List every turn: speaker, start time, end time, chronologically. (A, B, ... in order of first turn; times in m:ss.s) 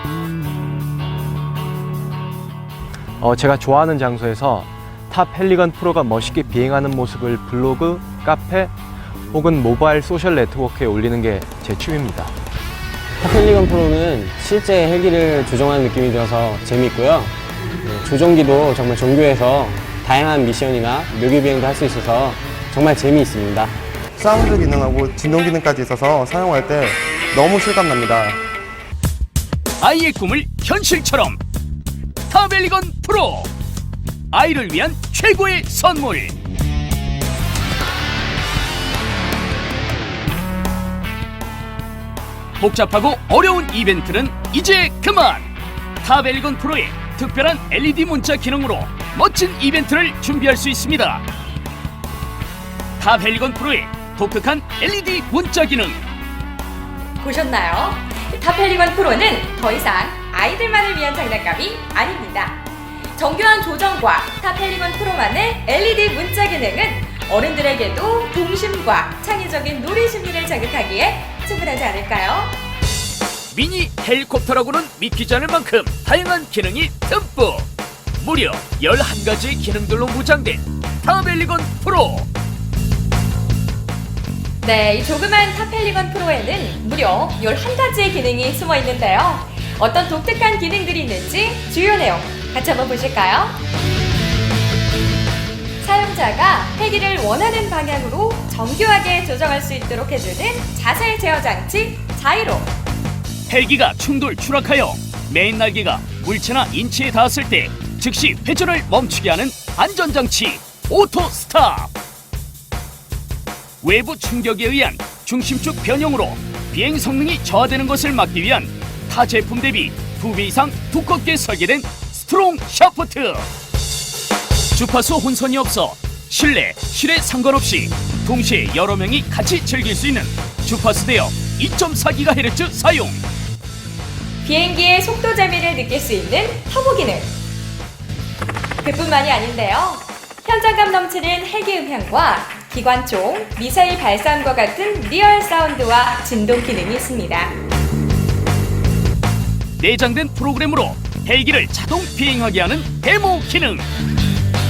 0:03.2-0:08.7 A
0:09.3-0:12.3 A
0:13.2-0:23.7 B
0:24.2-0:28.4 C
0:29.8-0:31.4 D
0:32.3-0:33.5 D
0:34.3-0:36.4 D
0:42.6-0:45.5 D
0:46.0-0:51.2 D
0:53.0-0:56.0 D
0:57.2-1:12.6 E
1:13.5-1:17.7 D
1:18.2-1:22.3 D
1:24.6-1:33.6 E
1:35.8-1:42.7 E
1:43.5-1:51.9 D
1:53.8-2:03.5 D
2:04.7-2:13.2 D
2:14.4-2:17.3 E
2:18.8-2:27.6 E
2:29.8-2:33.9 D